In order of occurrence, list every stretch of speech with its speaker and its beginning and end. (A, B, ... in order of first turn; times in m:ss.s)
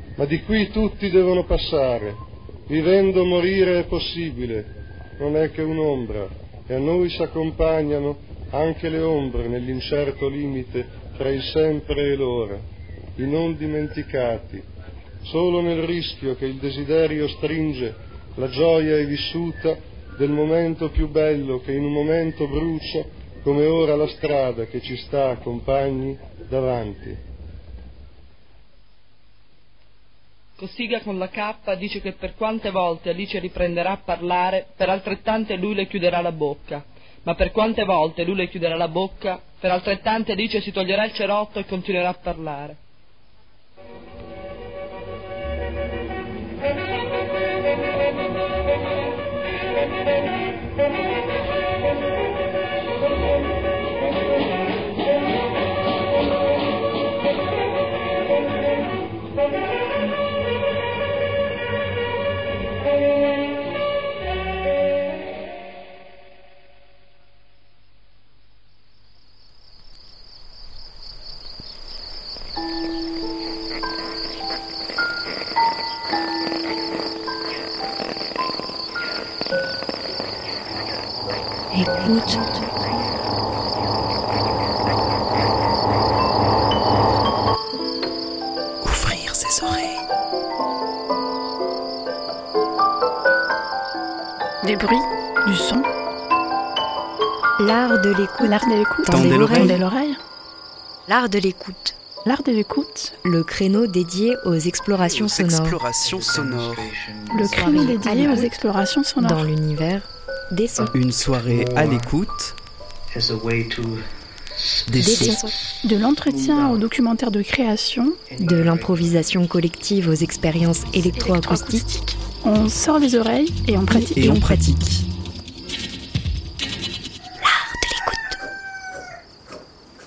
0:00.2-0:12.6 A
0:13.2-0:14.7 A
0:15.2-0:27.2 A
0:30.6-0:42.8 B
1:21.7-1:22.6 C
1:28.9-1:29.6 D
1:29.4-1:29.9 C
1:34.6-1:35.9 E
1:37.6-1:39.8 C
1:38.4-1:40.2 E
1:39.1-1:39.8 D
1:41.1-1:42.0 C
1:42.3-1:43.2 E
1:43.2-1:45.8 C
1:45.0-1:47.0 D
1:47.3-1:49.5 E
1:47.5-1:48.6 C
1:49.2-1:50.9 C
1:50.9-1:52.6 D
1:54.9-1:55.4 D
1:55.0-1:55.5 C
1:55.1-1:58.2 E
1:58.4-2:02.1 C
2:01.0-2:04.5 E
2:03.9-2:05.1 C
2:04.2-2:04.9 D
2:07.4-2:08.4 C